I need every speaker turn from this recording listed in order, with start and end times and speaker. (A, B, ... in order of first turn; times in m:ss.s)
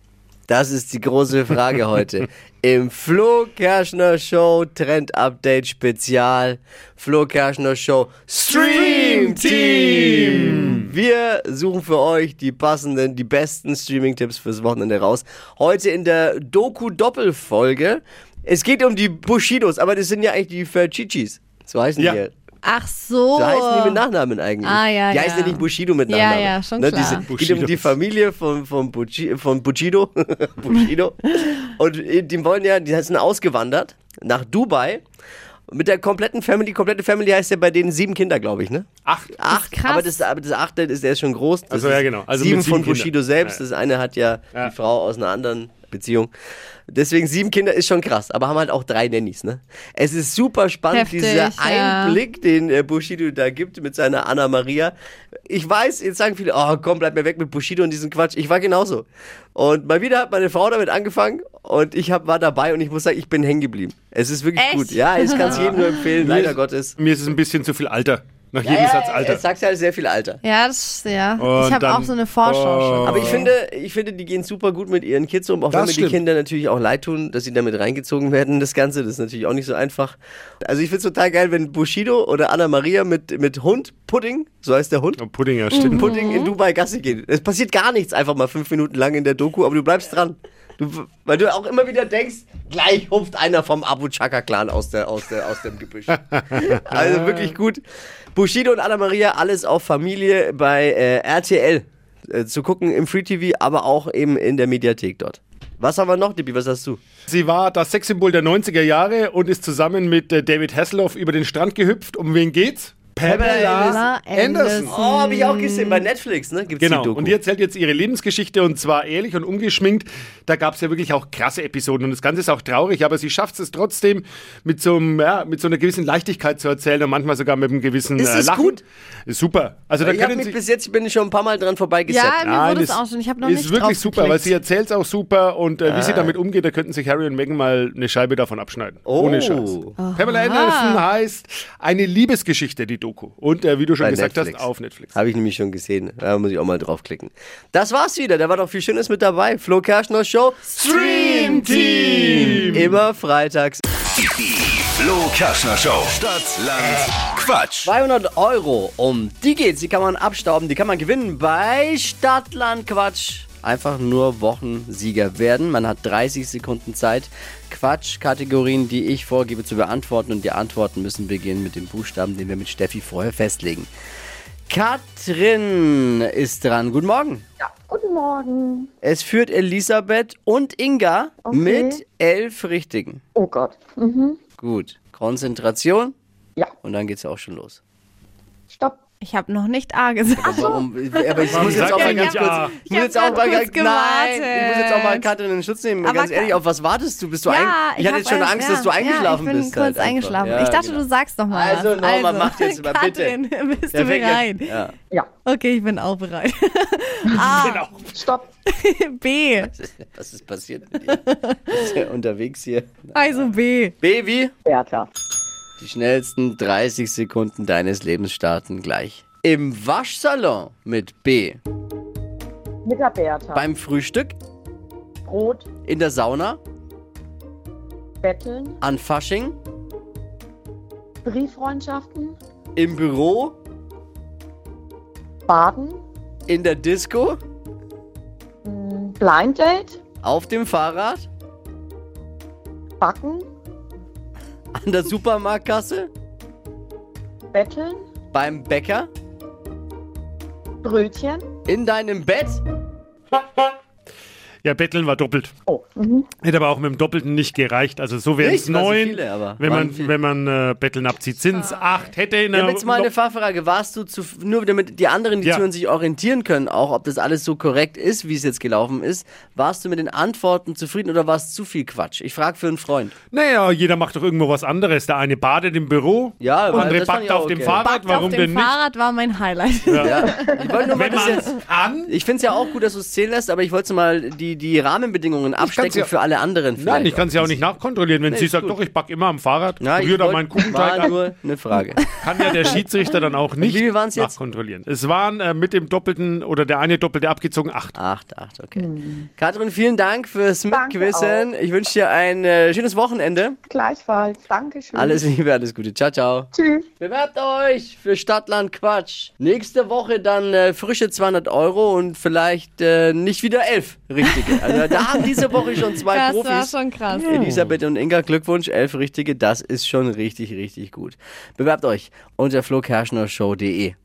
0:00.5-0:22.3 A
0:08.5-0:10.9 B
0:22.6-0:24.0 C
0:23.4-0:35.0 A
0:24.6-0:27.3 C
0:27.3-0:27.9 B
0:35.7-0:46.3 A
0:39.0-0:39.4 B
0:39.5-0:40.1 C
0:41.7-0:43.6 B
0:46.9-0:54.9 A
0:50.9-0:52.2 C
0:55.5-1:07.0 A
1:04.6-1:05.8 C
1:05.4-1:09.4 B
1:08.6-1:10.4 A
1:10.4-1:13.5 C
1:11.4-1:13.5 B
1:13.0-1:25.2 A
1:15.7-1:16.2 B
1:25.2-1:26.1 B
1:25.7-1:26.5 C
1:25.8-1:37.8 A
1:36.9-1:37.5 B
1:38.4-1:47.0 A
1:47.3-1:54.9 B
1:53.2-1:54.0 A
1:53.3-1:56.0 C
1:54.9-1:57.4 A
1:56.8-2:10.6 B
2:08.2-2:08.8 A
2:10.0-2:12.4 A
2:12.1-2:14.6 C
2:12.4-2:25.2 B
2:15.8-2:16.4 A
2:19.1-2:20.0 A
2:20.0-2:21.0 C
2:24.0-2:33.8 A
2:30.8-2:33.0 B
2:30.8-2:32.8 C
2:34.2-2:37.9 D
2:37.8-2:53.9 A
2:54.7-2:57.4 A
2:57.6-2:58.9 E
2:59.0-3:03.2 A
3:01.4-3:02.0 E
3:03.4-3:04.4 E
3:04.6-3:06.2 A
3:06.8-3:07.8 A
3:08.7-3:09.0 E
3:09.2-3:15.3 C
3:10.4-3:23.4 A
3:11.5-3:12.7 B
3:16.0-3:16.6 C
3:17.5-3:24.8 C
3:23.9-3:24.9 A
3:25.4-3:27.9 C
3:27.6-3:28.1 B
3:28.1-3:28.5 E
3:28.7-3:29.7 C
3:29.6-3:33.1 A
3:31.1-3:31.6 C
3:33.1-3:33.9 C
3:34.0-3:34.5 A
3:34.7-3:35.1 E
3:35.8-3:41.6 A
3:42.8-3:43.6 E
3:43.5-3:44.4 A
3:45.2-3:45.7 E
3:45.8-3:46.6 A
3:48.2-3:48.8 E
3:48.8-3:49.6 A
3:51.2-3:52.4 E
3:52.8-3:53.6 A
3:55.5-3:56.0 E
3:56.5-3:57.4 A
3:58.6-4:00.0 E
4:00.2-4:01.3 A
4:03.0-4:03.5 E
4:04.8-4:06.1 A
4:07.5-4:08.1 E
4:08.3-4:09.1 A
4:10.8-4:11.5 E
4:11.7-4:12.6 A
4:14.6-4:15.5 B
4:15.7-4:16.3 E
4:16.4-4:23.1 B
4:18.4-4:20.1 A
4:22.5-4:33.1 A
4:33.3-4:38.8 B
4:36.4-4:38.4 A
4:37.7-4:41.4 C
4:39.9-4:40.2 B
4:40.0-4:41.5 A
4:40.9-4:42.1 B
4:42.1-4:47.6 A
4:45.6-4:46.1 B
4:46.8-4:51.2 B
4:48.3-4:48.8 A
4:49.8-4:52.0 A
4:52.1-4:58.0 B
4:53.6-4:54.4 A
4:58.0-5:03.6 A
4:58.8-4:59.3 E
5:00.7-5:01.5 E
5:03.7-5:05.2 E
5:04.9-5:24.0 A
5:06.6-5:06.9 E
5:16.1-5:17.6 C